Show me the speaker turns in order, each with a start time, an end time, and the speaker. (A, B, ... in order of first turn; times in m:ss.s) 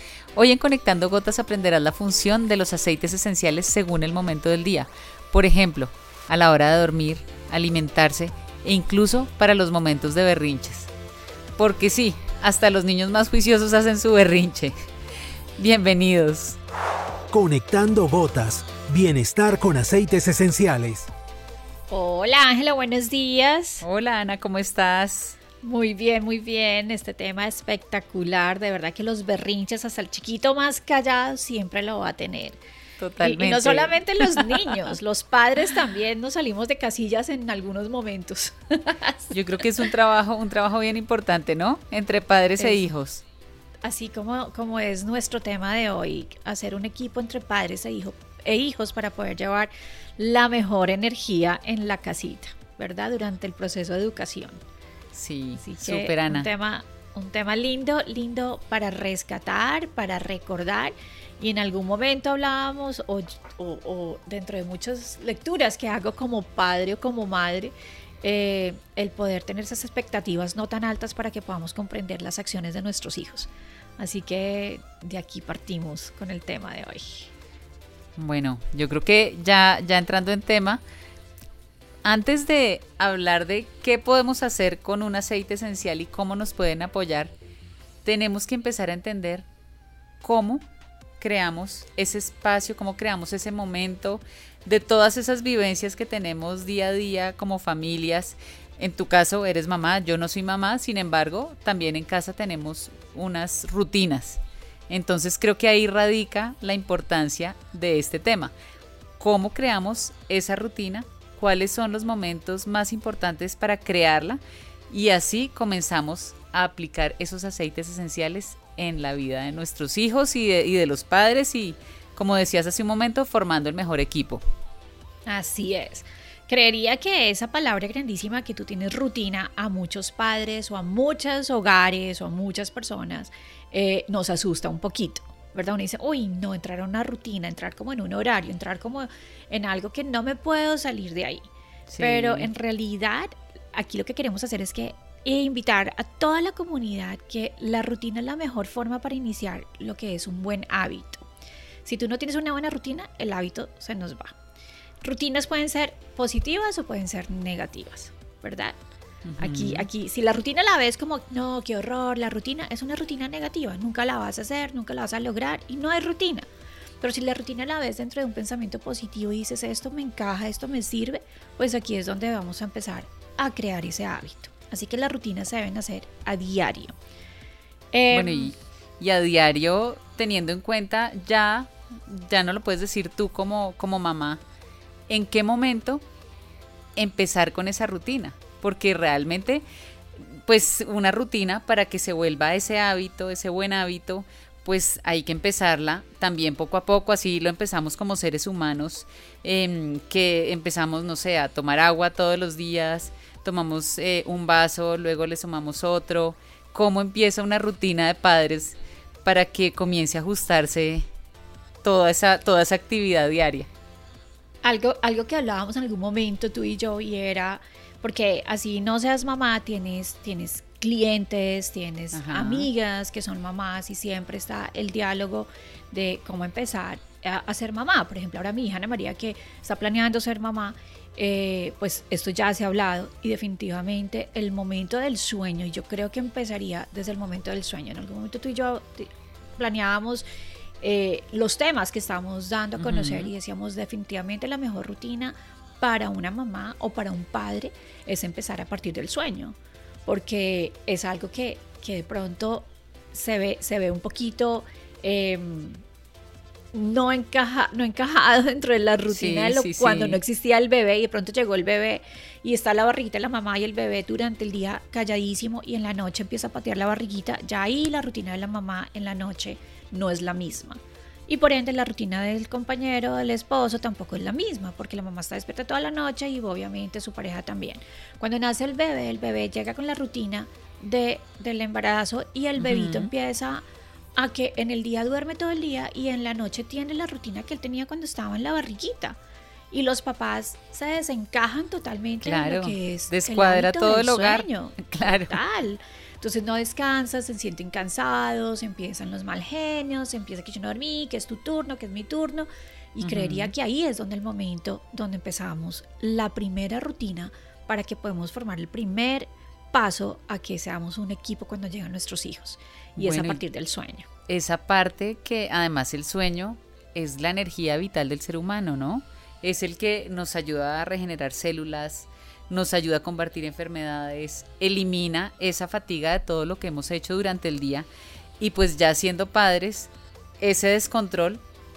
0:00.4-0:10.9 A
0:11.6-0:14.7 A
0:15.6-0:16.6 A
0:17.3-0:21.1 B
0:21.9-0:23.8 C
0:23.8-0:25.4 A
0:25.6-0:32.6 C
0:33.0-0:34.9 A
0:33.2-0:39.9 C
0:39.3-0:43.2 A
0:42.6-0:42.8 C
0:43.8-0:54.6 C
0:55.1-0:56.5 A
0:55.6-1:17.3 C
1:18.2-1:20.8 A
1:22.0-1:27.3 A
1:28.0-1:29.5 A
1:30.2-1:30.6 A
1:31.2-1:48.5 A
1:49.2-2:04.4 A
2:05.3-2:31.3 C
2:21.9-2:22.5 A
2:31.8-2:34.4 C
2:35.0-2:38.8 C
2:39.2-2:39.9 A
2:39.4-2:46.5 C
2:47.0-2:57.0 C
2:57.9-2:58.5 C
2:58.1-3:04.4 A
3:05.1-3:06.0 A
3:07.0-3:09.6 A
3:10.2-3:31.0 A
3:31.8-3:33.7 A
3:34.6-4:00.2 C
3:42.1-3:42.7 A
4:00.8-4:15.8 C
4:02.8-4:03.3 A
4:16.7-4:43.6 C
4:19.1-4:20.2 A
4:42.6-4:43.1 A
4:44.2-4:49.2 C
4:49.7-5:14.1 C
4:52.2-4:55.4 A
5:03.0-5:03.5 A
5:13.0-5:13.4 A
5:14.3-5:27.9 A
5:28.4-5:31.4 A